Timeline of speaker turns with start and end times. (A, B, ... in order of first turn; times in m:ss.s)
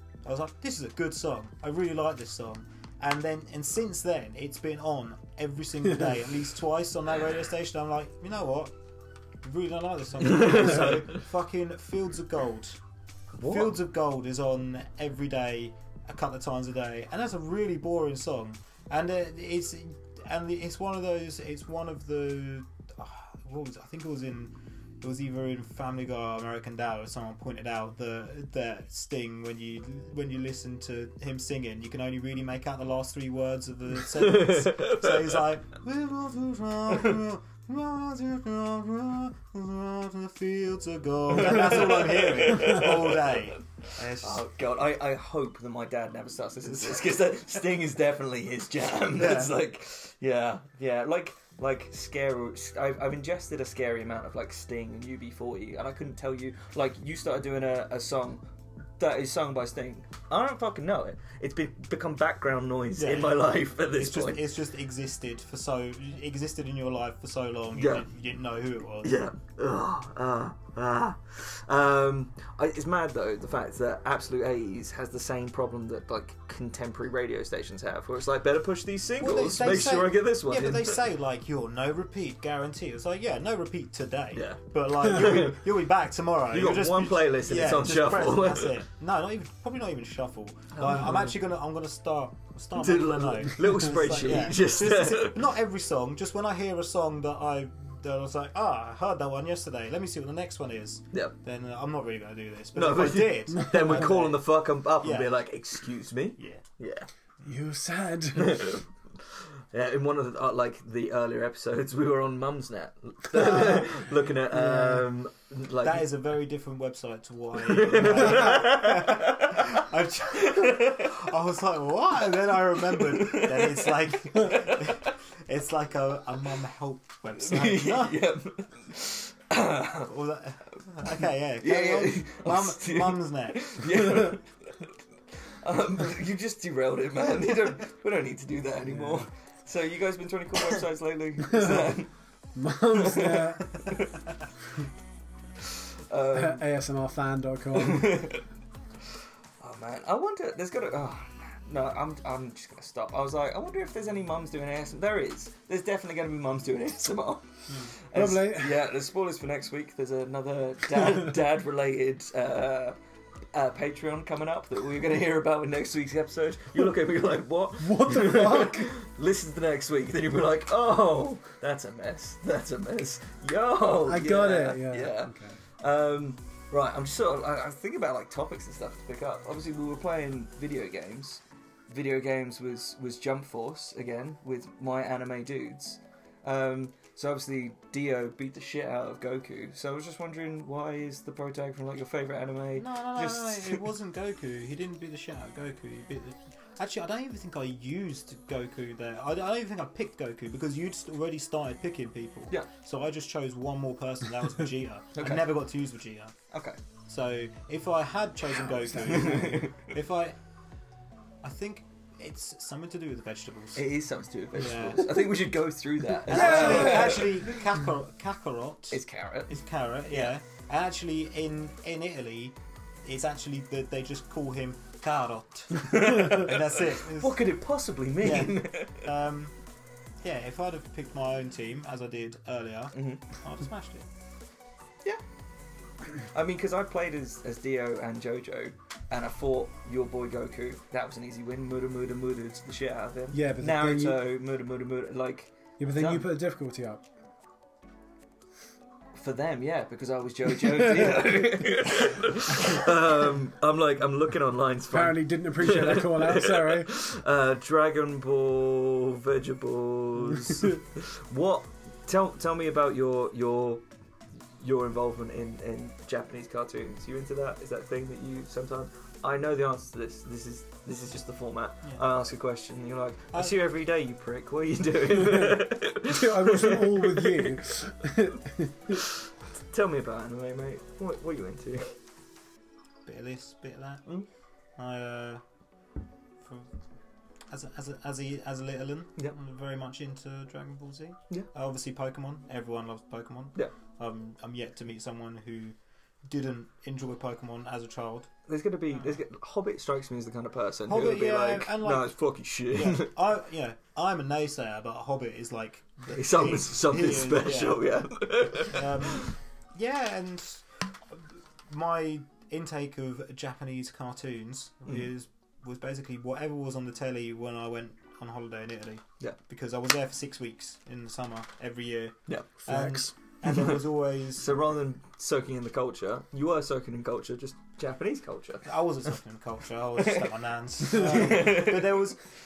0:00.2-0:08.7 A
0:09.4-0:12.8 A
0:10.2-0:11.2 B
0:13.4-0:13.7 B
0:13.4-0:44.4 A
0:34.7-0:35.1 B
0:41.4-0:43.4 B
0:44.2-0:58.4 B
0:49.2-0:49.5 A
0:59.0-1:04.4 B
1:03.0-1:09.2 A
1:07.7-1:08.0 B
1:09.0-1:21.0 B
1:19.2-1:44.4 A
1:24.3-1:25.6 B
1:26.5-1:28.8 B
1:30.7-1:31.3 B
1:32.8-1:35.4 B
1:42.7-1:47.1 B
1:45.0-1:45.4 A
1:46.4-1:46.6 A
1:47.4-1:48.7 C
1:48.3-1:56.1 B
1:54.5-1:55.0 C
1:55.8-2:08.2 A
1:57.6-2:01.1 B
2:03.0-2:05.1 B
2:07.4-2:10.1 B
2:10.0-2:14.3 A
2:11.0-2:14.4 B
2:15.6-2:22.1 B
2:21.5-2:21.9 C
2:22.5-2:23.7 C
2:22.9-2:24.0 B
2:26.1-2:26.6 B
2:26.3-2:28.3 C
2:27.7-2:28.4 B
2:29.6-2:43.0 B
2:38.1-2:38.8 C
2:43.5-3:13.8 B
2:47.8-2:48.9 C
2:54.0-2:55.6 C
3:12.8-3:26.4 A
3:25.1-3:25.5 B
3:26.5-3:26.8 B
3:27.1-3:30.4 A
3:29.0-3:29.9 B
3:31.4-3:33.8 A
3:33.8-3:37.5 B
3:34.6-3:35.3 A
3:36.2-3:47.6 A
3:38.9-3:39.5 B
3:40.1-3:40.3 B
3:45.9-3:49.0 B
3:48.2-3:49.5 A
3:50.2-3:54.1 A
3:52.9-3:53.2 B
3:56.3-4:06.3 B
4:03.3-4:04.2 C
4:05.8-4:07.0 C
4:09.1-4:23.8 B
4:14.9-4:16.9 C
4:24.6-4:37.6 B
4:33.3-4:33.6 A
4:35.4-4:39.0 C
4:39.7-4:42.0 B
4:43.0-4:44.0 A
4:44.8-4:45.4 A
4:46.4-4:46.7 A
4:47.5-4:58.3 A
4:58.5-5:03.1 B
5:00.9-5:24.5 A
5:06.1-5:09.2 B
5:22.6-5:23.1 C
5:23.4-5:23.8 B
5:24.4-5:28.7 B
5:28.6-5:32.3 A
5:30.8-5:32.0 B